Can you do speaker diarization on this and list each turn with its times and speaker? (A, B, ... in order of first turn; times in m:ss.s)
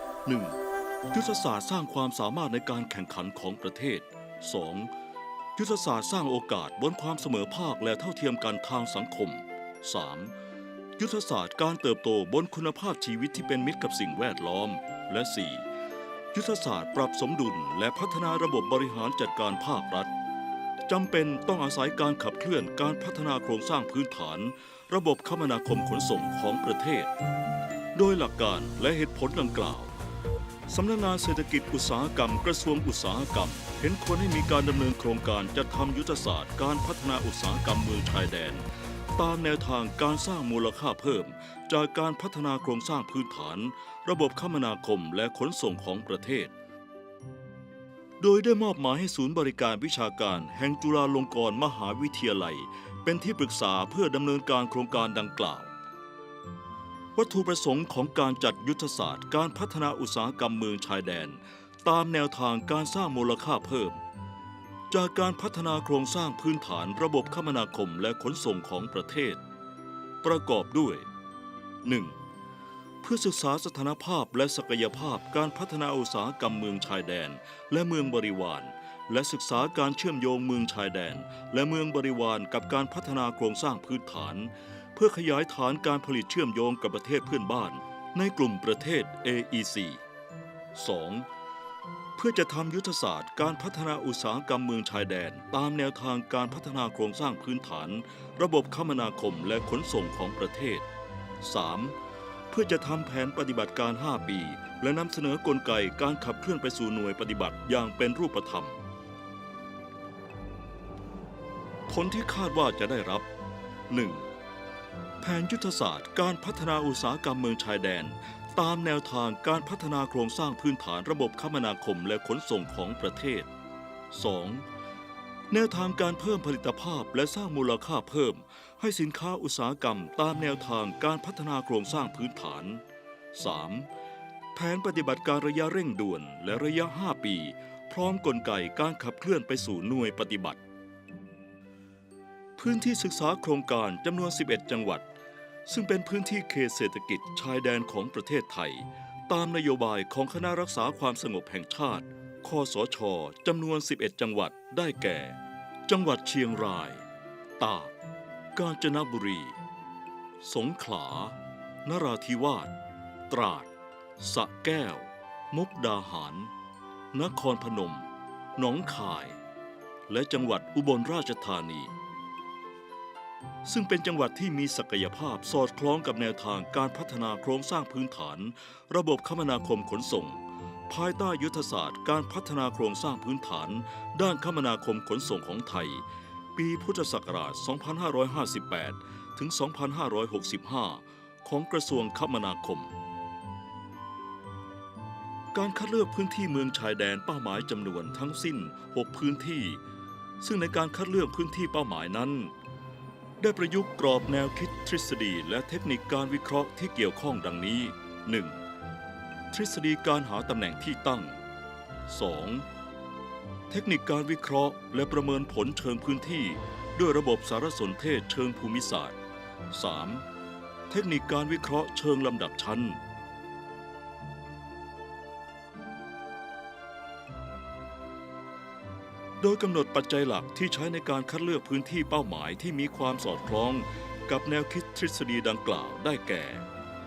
0:00.2-0:00.6 A
0:01.1-0:04.9 A
0:05.6-0:10.3 A
0:11.0-0:15.7 A
0:16.3-0:20.1 A
0:20.9-0:27.1 A
0:28.0-0:29.9 A
0:30.7-0:46.5 A
0:48.2-0:55.7 A
0:57.2-1:04.0 A
1:04.9-1:09.4 A
1:10.2-1:11.1 A
1:11.8-1:12.2 A
1:13.0-1:30.0 A
1:30.7-1:31.3 A
1:32.2-1:40.9 A
1:41.4-1:42.0 A
1:42.5-1:48.8 A
1:51.9-1:53.3 A
1:53.9-1:54.3 A
1:55.2-2:03.5 A
2:04.1-2:04.7 A
2:05.5-2:12.8 A
2:13.3-2:13.9 A
2:14.6-2:20.6 A
2:22.6-2:25.1 A
2:25.7-2:37.0 A
2:37.6-2:37.9 A
2:38.6-2:39.6 A
2:40.4-2:42.7 A
2:43.3-2:46.5 A
2:47.1-2:49.4 A
2:50.1-2:51.9 A
2:53.6-3:06.0 A
3:06.6-3:12.9 A
3:15.5-3:19.8 A
3:20.4-3:22.5 A
3:23.4-3:28.6 A
3:29.5-3:31.4 A
3:32.1-3:32.7 A
3:33.7-3:39.2 A
3:39.7-3:40.2 A
3:40.9-3:43.0 A
3:49.4-3:56.7 A